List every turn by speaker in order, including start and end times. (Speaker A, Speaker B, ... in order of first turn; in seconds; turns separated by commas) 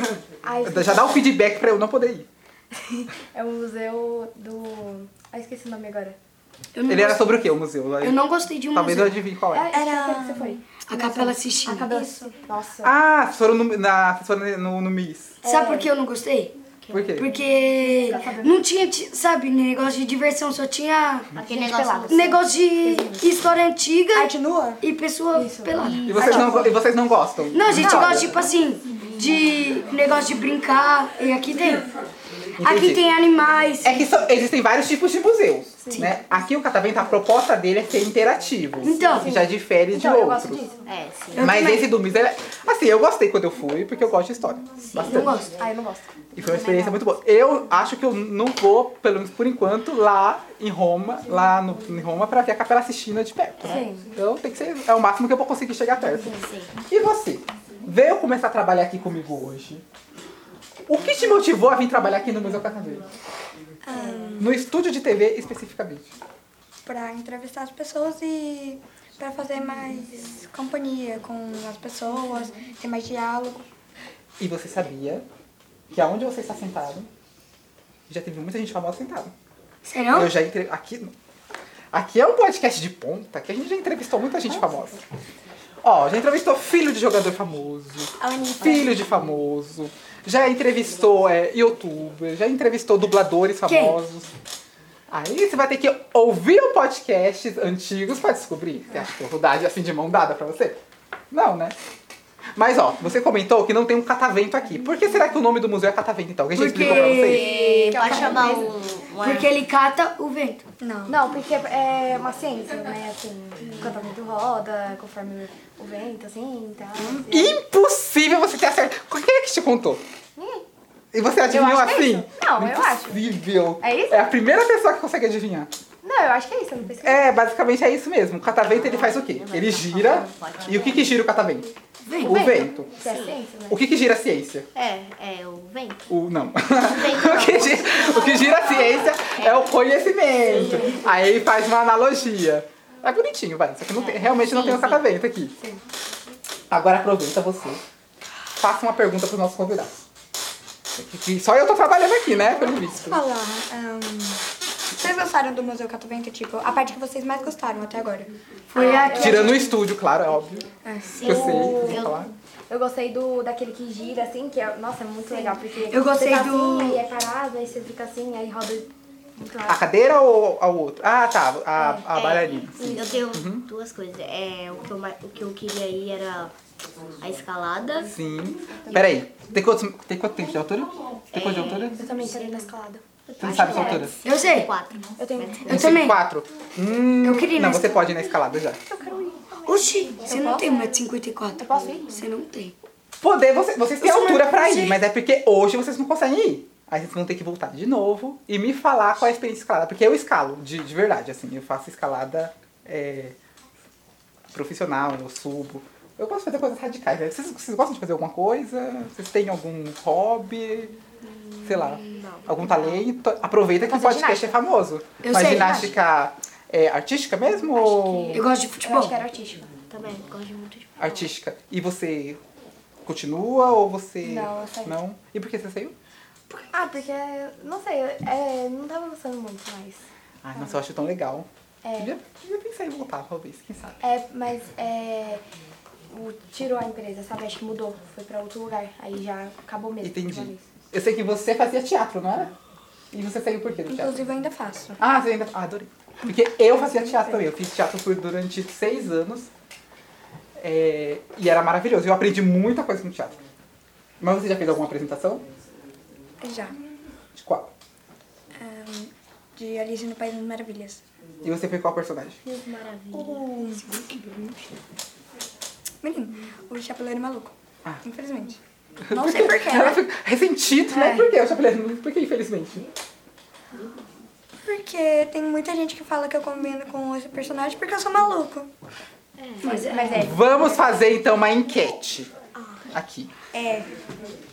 Speaker A: 0.4-1.4, Speaker B: 0.6-2.3, Speaker A: 2.9-6.2, Speaker C: 6.7-7.2, Speaker B: 6.8-8.2, Speaker C: 8.0-9.2, Speaker B: 8.7-9.7, Speaker A: 9.5-12.9, Speaker D: 9.7-10.9, Speaker C: 10.9-11.8, Speaker D: 11.7-12.3, Speaker B: 12.8-15.4, Speaker A: 15.4-15.9, Speaker C: 15.4-16.5, Speaker E: 16.8-17.1, Speaker B: 16.9-17.3, Speaker C: 17.1-21.3, Speaker A: 17.8-18.6, Speaker E: 21.4-22.3, Speaker A: 21.4-23.3, Speaker C: 22.1-26.1, Speaker D: 24.1-24.8, Speaker A: 25.3-26.8, Speaker E: 25.8-26.8, Speaker B: 26.1-28.4, Speaker C: 27.5-31.9, Speaker A: 27.7-28.3, Speaker C: 32.6-34.1, Speaker B: 32.6-33.0, Speaker B: 33.8-40.6, Speaker A: 35.8-36.1, Speaker C: 38.8-39.3, Speaker A: 39.0-40.9, Speaker E: 40.9-41.5, Speaker B: 41.3-45.4, Speaker C: 41.4-41.8, Speaker C: 45.0-45.5, Speaker A: 45.1-47.1, Speaker B: 46.3-59.8, Speaker A: 53.6-54.1, Speaker E: 56.3-56.7, Speaker B: 60.9-63.1, Speaker D: 63.8-64.6, Speaker B: 64.4-66.1, Speaker D: 66.8-73.6, Speaker B: 74.4-75.2, Speaker B: 75.9-77.1, Speaker B: 78.1-79.3, Speaker C: 79.8-80.3, Speaker B: 80.1-81.1, Speaker B: 81.9-85.0, Speaker B: 85.8-94.3, Speaker D: 88.2-89.0, Speaker C: 93.6-94.0, Speaker B: 95.1-100.8, Speaker B: 101.3-101.8, Speaker B: 102.5-107.5, Speaker C: 106.5-108.6, Speaker E: 107.0-109.5, Speaker D: 107.9-108.6, Speaker C: 109.2-110.6, Speaker D: 110.8-111.2, Speaker A: 111.1-117.6, Speaker B: 117.3-120.0, Speaker A: 120.3-120.6, Speaker B: 121.1-125.7, Speaker A: 121.5-124.2, Speaker A: 126.0-127.3, Speaker B: 127.0-131.7, Speaker E: 128.6-131.2, Speaker C: 132.1-132.4, Speaker B: 132.2-132.9, Speaker A: 132.2-133.8, Speaker E: 133.0-133.4, Speaker B: 133.7-134.7, Speaker E: 134.7-136.1, Speaker B: 136.1-145.6, Speaker E: 136.8-139.8, Speaker E: 143.9-145.0, Speaker B: 146.7-147.8, Speaker B: 148.6-150.0, Speaker B: 150.9-153.2, Speaker D: 152.8-158.3, Speaker C: 158.7-159.5, Speaker E: 158.7-159.3, Speaker A: 158.8-159.7, Speaker B: 159.1-160.7, Speaker D: 160.8-161.9, Speaker E: 161.2-162.2, Speaker B: 161.2-162.3, Speaker A: 161.2-161.6, Speaker A: 162.7-169.8, Speaker C: 165.9-167.0, Speaker B: 169.6-173.7, Speaker A: 171.8-172.1, Speaker E: 172.1-176.5, Speaker A: 172.7-173.2, Speaker E: 177.2-178.1, Speaker B: 178.1-182.0, Speaker A: 178.8-179.1, Speaker E: 181.3-182.7, Speaker A: 181.8-184.1, Speaker B: 183.4-184.2, Speaker E: 183.4-185.8, Speaker C: 184.2-184.7, Speaker A: 185.2-185.8, Speaker B: 185.7-188.8, Speaker C: 185.7-186.2, Speaker C: 187.2-188.0, Speaker A: 188.9-189.7, Speaker C: 189.7-192.7, Speaker D: 190.1-190.9, Speaker A: 191.6-192.1, Speaker B: 193.2-203.3, Speaker C: 194.0-195.0, Speaker B: 204.5-210.9, Speaker B: 211.6-218.4, Speaker E: 211.7-213.0, Speaker A: 213.8-214.6, Speaker C: 215.2-215.8, Speaker A: 215.6-215.9, Speaker A: 217.7-219.7, Speaker C: 218.3-219.2, Speaker E: 219.9-221.3, Speaker B: 221.0-222.4, Speaker B: 223.1-225.9, Speaker A: 224.2-225.0, Speaker A: 226.5-230.8, Speaker B: 230.4-234.0, Speaker A: 231.8-232.1, Speaker A: 234.0-235.4, Speaker A: 236.1-240.6, Speaker B: 240.0-242.5, Speaker B: 243.1-244.2, Speaker D: 243.9-245.0, Speaker B: 245.0-249.5, Speaker B: 250.6-253.3, Speaker B: 254.2-255.4, Speaker D: 256.4-256.8, Speaker B: 257.3-257.7, Speaker D: 258.5-261.0, Speaker B: 261.4-262.4, Speaker A: 262.4-263.4, Speaker D: 263.1-263.8, Speaker E: 263.7-264.7, Speaker D: 266.0-268.6, Speaker B: 269.0-272.8, Speaker D: 269.1-270.0, Speaker A: 270.9-271.3, Speaker D: 274.6-278.7, Speaker E: 279.4-280.2, Speaker C: 279.6-280.0, Speaker A: 279.7-281.0, Speaker B: 280.1-282.3, Speaker B: 282.9-283.3, Speaker D: 283.5-283.9